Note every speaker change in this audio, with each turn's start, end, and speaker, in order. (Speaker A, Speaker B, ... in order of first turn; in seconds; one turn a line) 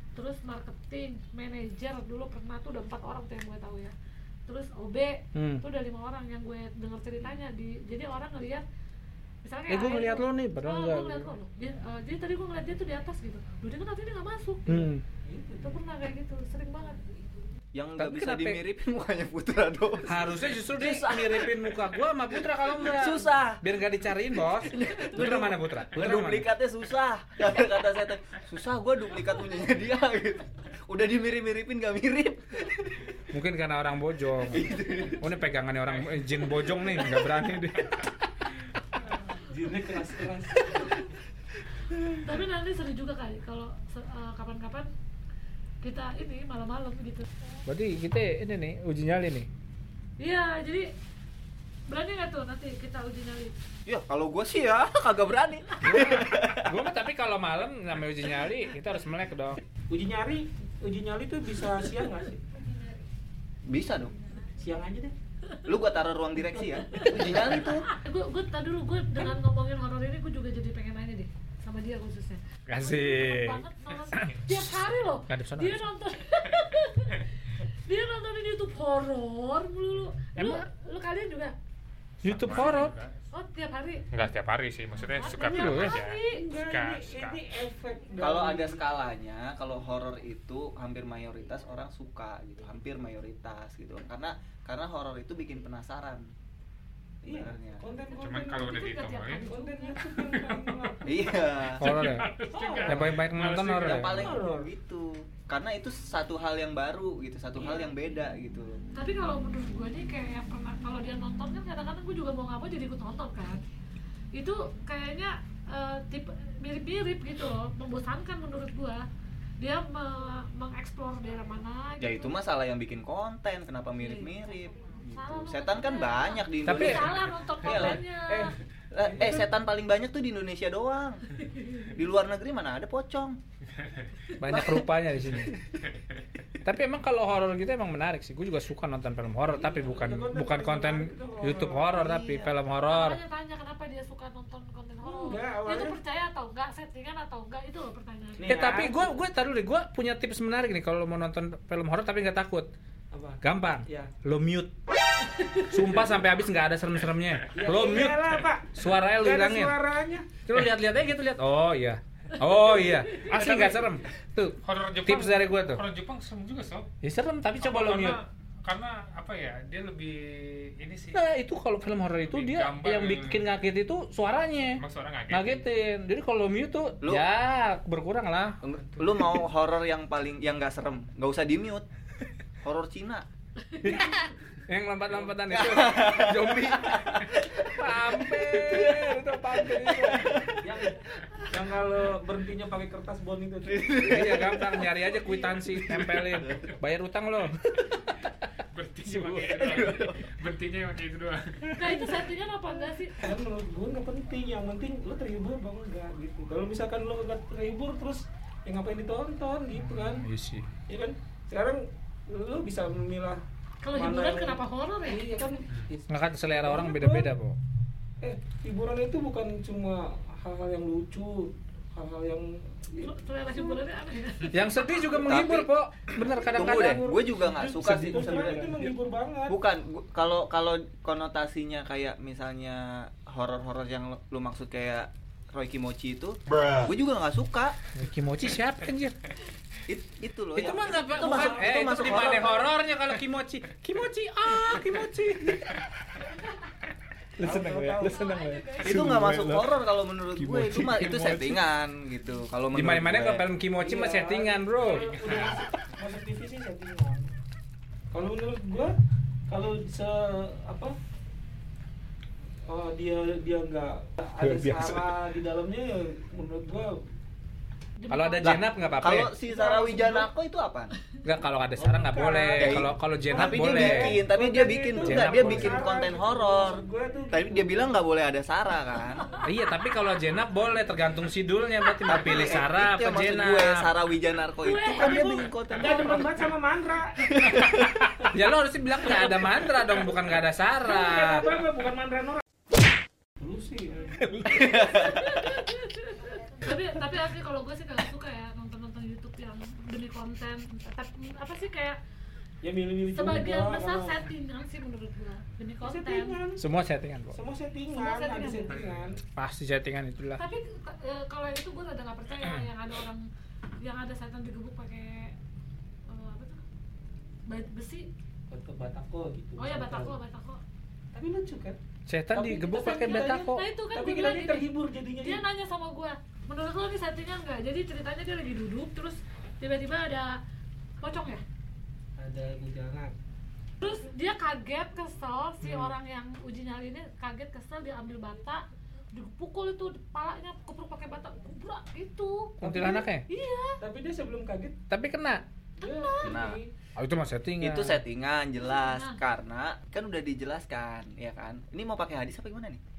Speaker A: 0.1-3.9
Speaker A: 4.5-8.6
Speaker B: 5.3-5.6
Speaker A: 9.4-14.9
Speaker B: 9.7-11.3
Speaker B: 14.7-15.0
Speaker C: 15.2-15.8
Speaker A: 15.6-17.0
Speaker D: 17.7-21.7
Speaker B: 18.0-18.6
Speaker B: 20.1-26.5
Speaker D: 22.8-23.7
Speaker D: 24.6-33.1
Speaker B: 33.3-38.1
Speaker D: 34.5-35.3
Speaker C: 39.4-41.0
Speaker A: 40.5-41.1
Speaker A: 42.2-44.9
Speaker A: 45.8-47.3
Speaker B: 47.6-49.5
Speaker A: 50.2-50.9
Speaker A: 51.9-53.5
Speaker D: 53.9-56.8
Speaker B: 55.8-59.6
Speaker C: 59.9-62.4
Speaker D: 63.6-64.2
Speaker C: 64.6-65.1
Speaker D: 65.6-67.9
Speaker C: 66.5-67.6
Speaker A: 66.9-81.5
Speaker B: 72.7-73.6
Speaker B: 75.3-75.8
Speaker B: 80.3-80.7
Speaker B: 82.2-82.9
Speaker E: 82.2-83.2
Speaker A: 83.3-84.1
Speaker E: 84.1-87.4
Speaker A: 85.0-86.5
Speaker C: 85.5-88.8
Speaker B: 85.5-86.0
Speaker D: 88.2-96.3
Speaker C: 97.2-98.8
Speaker D: 97.3-97.8
Speaker E: 98.2-99.5
Speaker A: 98.4-100.1
Speaker C: 99.4-101.3
Speaker E: 100.1-100.9
Speaker D: 101.0-101.9
Speaker B: 101.8-104.2
Speaker E: 101.8-104.2
Speaker C: 102.5-103.2
Speaker D: 103.8-108.8
Speaker C: 104.1-104.7
Speaker C: 107.5-107.9
Speaker A: 108.9-113.6
Speaker A: 114.3-119.0
Speaker A: 119.6-122.4
Speaker D: 122.0-128.0
Speaker A: 124.0-124.3
Speaker A: 124.9-128.5
Speaker B: 126.6-127.2
Speaker C: 127.6-129.5
Speaker D: 128.9-131.2
Speaker A: 131.3-131.9
Speaker D: 131.9-133.4
Speaker E: 133.8-134.1
Speaker B: 134.4-135.6
Speaker D: 134.5-134.9
Speaker B: 136.6-143.2
Speaker C: 139.5-142.5
Speaker A: 142.8-148.6
Speaker C: 145.0-146.0
Speaker C: 148.4-149.2
Speaker B: 148.5-152.7
Speaker C: 153.1-154.1
Speaker B: 153.4-154.8
Speaker A: 155.3-155.7
Speaker B: 155.6-159.8
Speaker C: 157.5-160.4
Speaker B: 160.4-165.8
Speaker E: 163.1-164.0
Speaker E: 164.6-166.9
Speaker B: 167.0-168.2
Speaker E: 167.6-171.2
Speaker B: 171.1-178.6
Speaker E: 172.2-173.4
Speaker E: 174.8-175.6
Speaker D: 178.6-181.8
Speaker D: 182.6-183.3
Speaker A: 183.7-184.2
Speaker B: 183.8-190.4
Speaker D: 185.5-190.8
Speaker C: 190.6-194.5
Speaker D: 193.6-194.9
Speaker B: 194.1-198.2
Speaker D: 195.7-196.7
Speaker E: 198.7-201.7
Speaker B: 199.1-199.9
Speaker D: 199.6-200.3
Speaker C: 201.7-202.2
Speaker A: 201.7-203.2
Speaker C: 203.1-210.2
Speaker B: 209.7-210.7
Speaker C: 210.9-213.4
Speaker A: 213.8-215.3
Speaker C: 213.9-217.3
Speaker B: 216.1-217.6
Speaker C: 218.2-223.8
Speaker A: 223.0-225.1
Speaker B: 224.5-227.1
Speaker D: 225.1-225.7
Speaker C: 226.1-229.6
Speaker D: 226.5-228.7
Speaker B: 227.8-228.9
Speaker D: 229.5-237.8
Speaker B: 237.9-239.2
Speaker D: 239.9-242.7
Speaker B: 240.5-245.8
Speaker C: 240.8-242.7
Speaker B: 247.4-249.8
Speaker C: 247.4-248.2
Speaker A: 248.0-249.0
Speaker D: 248.8-253.5
Speaker B: 250.3-251.7
Speaker B: 252.7-255.1
Speaker C: 253.8-257.3
Speaker E: 254.8-255.6
Speaker C: 258.1-258.9
Speaker C: 259.5-260.9
Speaker C: 262.7-267.0
Speaker B: 264.4-265.1
Speaker A: 268.0-268.9
Speaker B: 268.1-269.3
Speaker D: 268.4-270.9
Speaker C: 269.3-270.3
Speaker B: 271.2-274.2
Speaker C: 271.8-277.9
Speaker D: 272.6-279.3
Speaker B: 274.9-275.9
Speaker B: 279.4-283.9
Speaker D: 282.1-286.4
Speaker A: 284.6-285.4
Speaker C: 284.9-287.3
Speaker D: 287.2-288.1
Speaker B: 288.2-291.6
Speaker C: 289.1-289.6
Speaker C: 290.9-292.4
Speaker C: 293.4-294.2
Speaker B: 294.2-294.9
Speaker D: 294.4-295.3
Speaker A: 294.8-302.0
Speaker C: 302.6-304.2
Speaker A: 303.1-306.4
Speaker C: 305.8-306.6
Speaker B: 306.6-307.4
Speaker C: 307.3-309.2
Speaker A: 307.9-308.7
Speaker E: 308.7-309.2
Speaker B: 309.3-310.4
Speaker A: 310.4-313.3
Speaker B: 312.4-312.7
Speaker A: 313.8-315.4
Speaker A: 316.1-316.6
Speaker A: 317.5-318.1
Speaker C: 318.5-320.1
Speaker A: 319.6-320.6
Speaker C: 321.1-321.8
Speaker B: 322.1-323.7
Speaker C: 322.3-325.4
Speaker A: 322.6-330.4
Speaker A: 331.0-331.4
Speaker C: 332.2-333.1
Speaker A: 333.8-343.8
Speaker B: 335.6-335.9
Speaker B: 342.6-343.2
Speaker C: 342.6-343.0
Speaker C: 343.8-344.8
Speaker B: 344.9-345.4
Speaker C: 345.8-346.7
Speaker A: 345.8-346.5
Speaker D: 346.2-346.6
Speaker B: 346.9-348.0
Speaker D: 347.6-352.8
Speaker A: 348.6-349.2